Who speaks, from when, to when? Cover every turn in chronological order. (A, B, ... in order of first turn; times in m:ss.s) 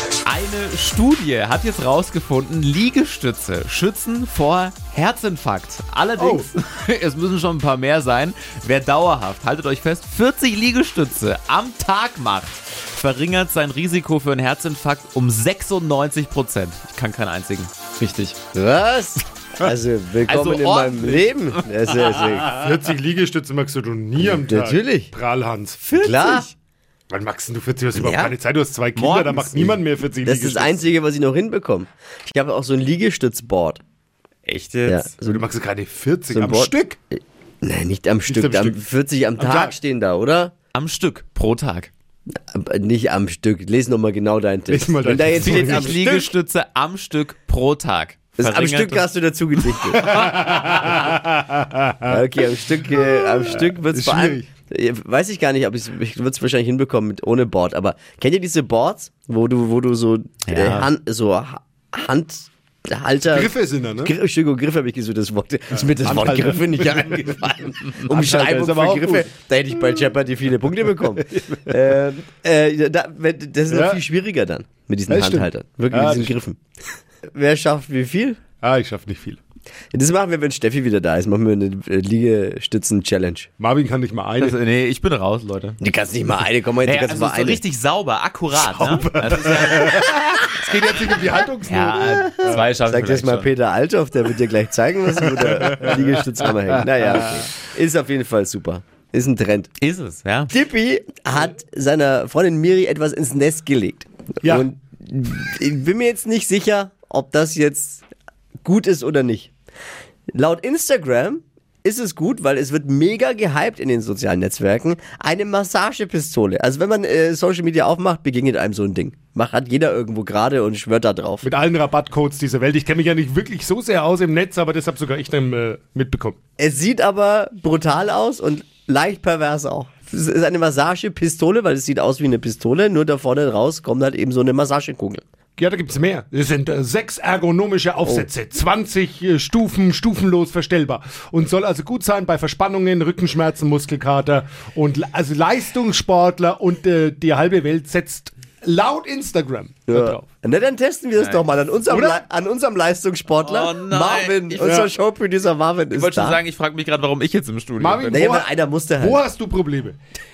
0:00.2-0:18.4 A
0:06.2-0:06.5 B
0:18.5-0:22.5 C
0:20.3-0:22.6 A
0:22.5-0:25.8 B
0:24.2-0:25.1 C
0:25.9-0:26.5 C
0:25.9-0:26.5 A
0:27.1-0:30.8 B
0:28.0-0:28.3 C
0:29.0-0:29.7 A
0:30.2-0:33.8 C
0:34.5-0:35.1 A
0:34.9-0:35.5 C
0:35.3-0:37.0 B
0:36.3-0:40.5 C
0:38.3-0:38.8 B
0:39.4-0:39.7 B
0:40.7-0:41.9 A
0:42.4-0:46.3 C
0:44.7-0:46.2 B
0:45.4-0:49.1 A
0:48.4-0:50.9 C
0:49.9-0:52.2 B
0:50.3-0:50.7 A
0:52.1-1:16.6 C
0:52.9-0:54.4 B
1:00.5-1:00.9 A
1:03.3-1:04.1 B
1:05.8-1:07.5 B
1:08.1-1:09.3 B
1:11.2-1:11.7 B
1:13.7-1:14.0 B
1:15.1-1:16.4 B
1:17.3-1:18.4 C
1:18.6-1:19.4 B
1:19.9-1:23.5 C
1:23.6-1:24.6 B
1:24.4-1:25.8 A
1:25.8-1:27.6 C
1:26.8-1:30.5 A
1:28.5-1:32.7 B
1:31.2-1:33.5 A
1:32.5-1:39.7 C
1:35.5-1:36.2 B
1:39.8-1:40.5 A
1:40.5-1:48.0 C
1:48.6-1:49.5 C
1:50.4-2:01.5 C
2:01.4-2:06.4 B
2:06.6-2:15.2 C
2:15.6-2:30.2 B
2:29.9-2:36.4 C
2:31.2-2:31.5 A
2:31.9-2:32.2 B
2:33.4-2:34.7 A
2:34.6-2:34.9 B
2:35.9-2:38.3 A
2:37.8-2:40.0 B
2:38.1-2:39.2 C